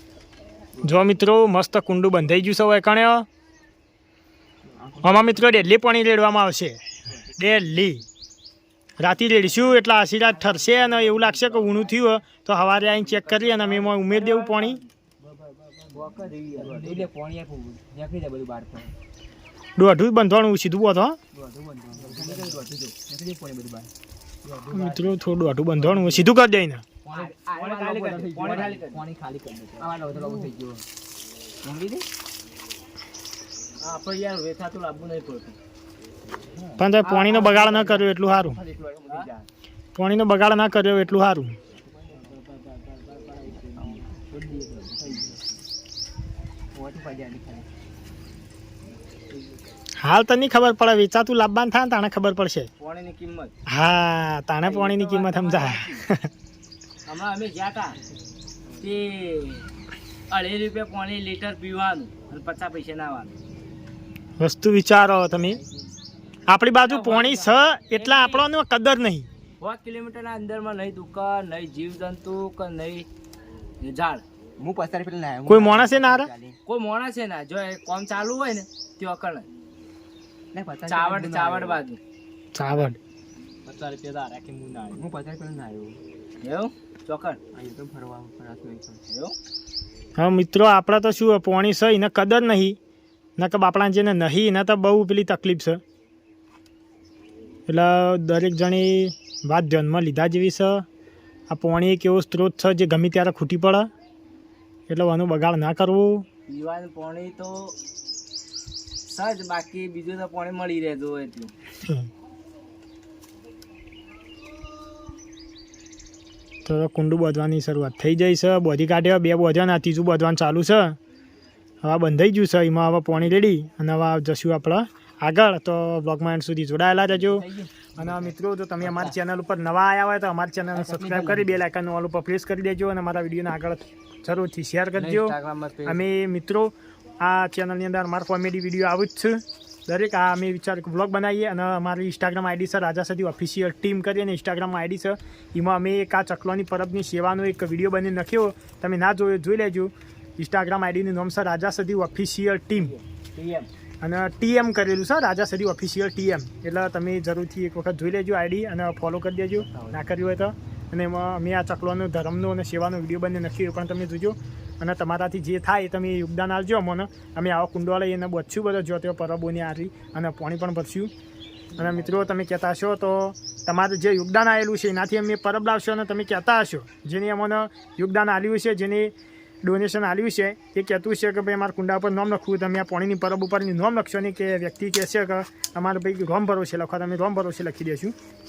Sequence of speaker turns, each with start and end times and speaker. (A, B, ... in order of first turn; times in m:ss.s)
0:00.8-0:03.2 A
0:05.0-0:08.0 A
0:09.0-0:14.8 A
0:10.6-0:11.8 B
0:13.0-0:13.9 C
0:14.1-0:14.4 B
0:15.2-0:18.9 B
0:15.9-0:17.1 C
0:19.8-0:21.2 A
0:21.3-0:23.9 B
0:21.9-0:22.7 C
0:24.4-0:25.2 B
0:24.7-0:26.8 A
0:25.7-0:26.2 B
0:27.0-0:30.8 B
0:27.1-0:29.0 C
0:29.8-0:30.5 C
0:31.6-0:32.0 B
0:33.8-0:35.6 C
0:36.6-0:39.4 B
0:36.8-0:38.6 A
0:40.0-0:41.6 A
0:41.8-0:42.4 B
0:42.1-0:44.2 C
0:43.2-0:45.4 B
0:46.7-0:47.6 B
0:50.0-0:52.7 A
0:52.8-0:53.5 C
0:53.7-0:56.3 A
0:54.6-0:56.0 C
0:57.0-0:58.0 C
0:58.8-0:59.6 C
1:00.3-1:03.3 C
1:04.4-1:05.6 A
1:05.4-1:05.8 B
1:06.5-1:09.3 A
1:06.8-1:08.4 C
1:09.6-1:13.1 C
1:13.8-1:14.2 C
1:14.6-1:16.5 B
1:15.4-1:16.3 A
1:16.6-1:19.5 C
1:20.5-1:21.8 B
1:20.9-1:22.0 C
1:22.5-1:23.0 A
1:23.7-1:25.0 C
1:24.9-1:26.0 B
1:26.4-1:27.4 C
1:27.5-1:29.0 B
1:29.1-1:29.3 C
1:30.2-1:32.8 A
1:33.4-1:35.8 A
1:37.7-1:40.8 A
1:41.5-1:43.9 A
1:44.9-1:46.2 A
1:46.5-1:47.8 C
1:49.0-1:51.5 C
1:56.6-2:01.0 A
2:01.8-2:07.4 A
2:07.1-2:09.1 B
2:08.0-2:32.9 A
2:10.8-2:11.5 B
2:15.0-2:16.0 B
2:32.7-2:33.7 C
2:34.0-2:51.1 A
2:51.8-3:08.1 A